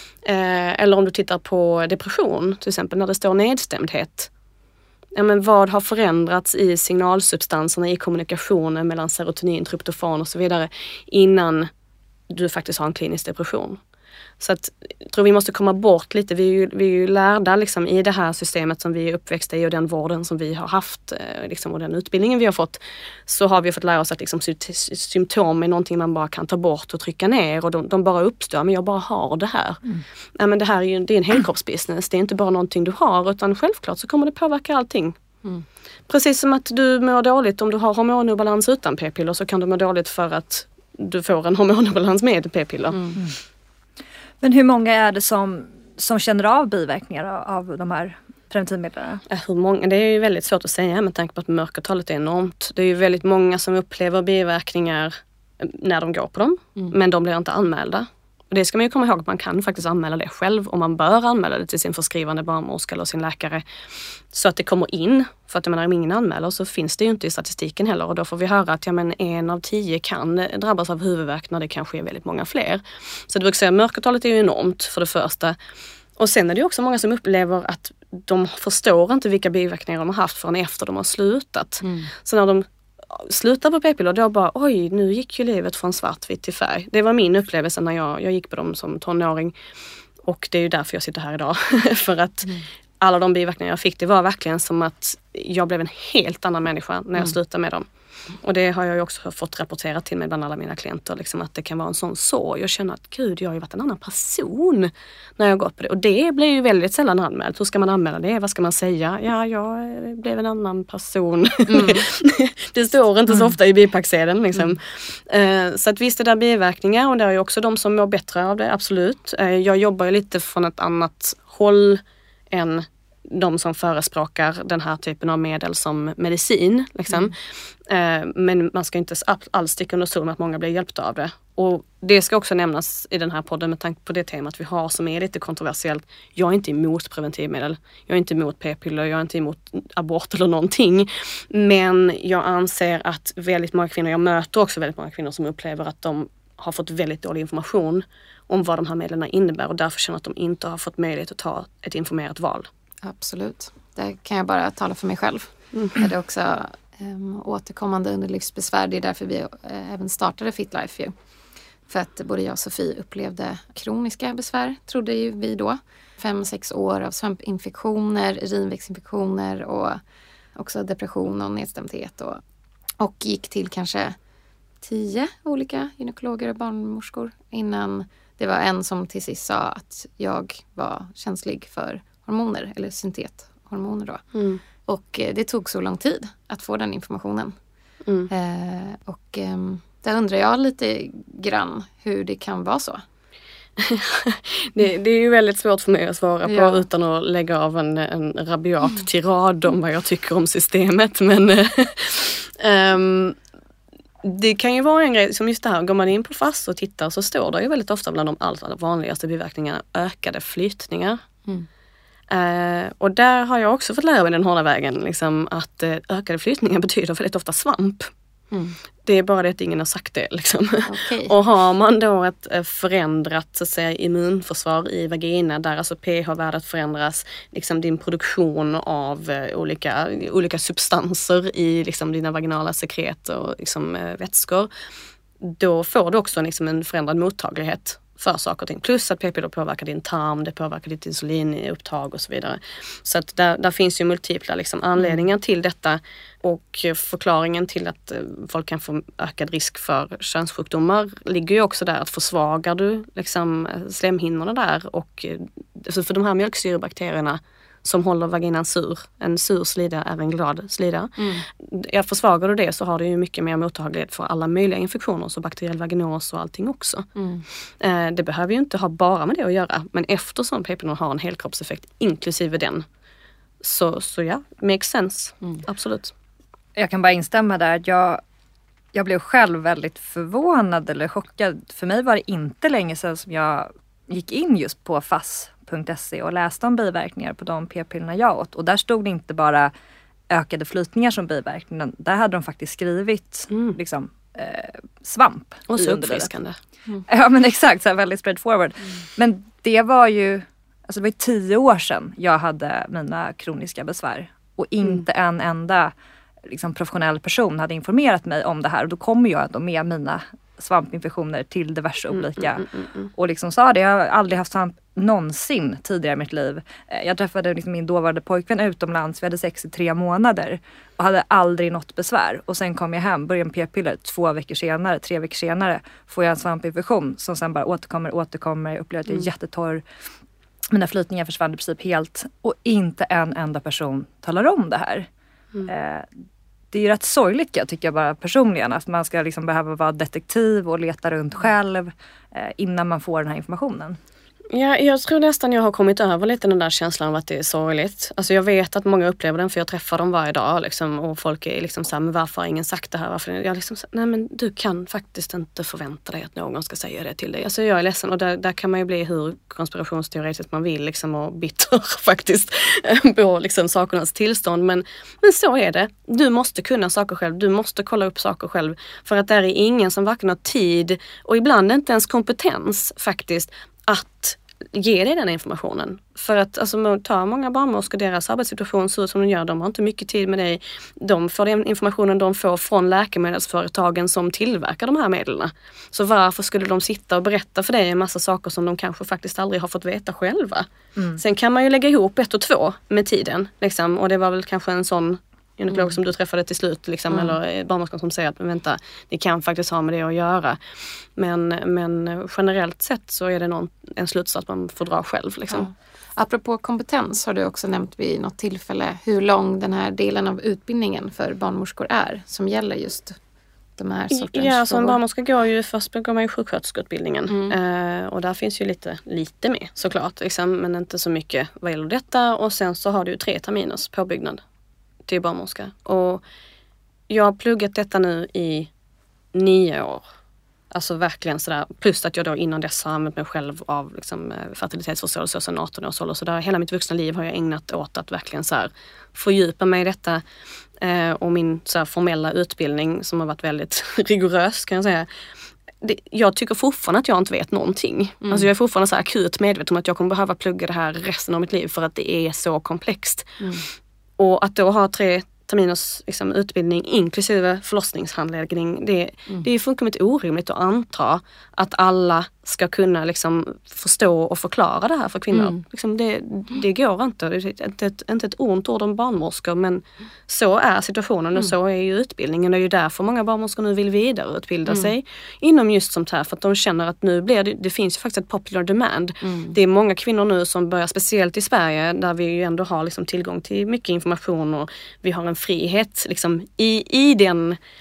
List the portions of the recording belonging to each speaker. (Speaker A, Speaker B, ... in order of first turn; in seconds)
Speaker A: 0.2-4.3, 5.1-11.7, 12.3-13.8, 14.4-29.8, 30.4-35.1, 36.1-43.0, 49.3-63.6, 64.3-75.6, 76.2-89.5, 90.2-97.9, 98.4-127.3, 127.8-152.7, 184.3-184.6, 193.8-203.4, 204.2-211.2, 212.3-218.1, 219.0-234.7, 235.4-267.1, 267.8-272.8, 273.6-276.1, 293.5-293.8, 295.7-296.6, 344.5-400.6, 401.1-405.7, 414.1-424.4, 425.1-426.2, 427.1-428.7, 429.3-430.0, 430.7-440.2, 440.8-445.1, 445.8-453.3, 454.2-487.6
Speaker B: 44.4-49.2, 276.8-278.2, 278.9-289.7, 290.3-296.3, 297.1-305.9, 306.4-329.8, 330.7-335.1, 335.6-336.1, 336.7-344.0
Speaker C: 81.8-82.1, 111.7-112.0, 153.0-161.1, 161.9-170.0, 170.5-172.4, 173.0-174.2, 174.8-184.2, 184.8-187.5, 188.3-193.0, 196.4-196.8, 220.8-221.3, 267.2-267.4, 405.5-413.2, 413.8-415.0, 448.2-448.5, 479.2-479.5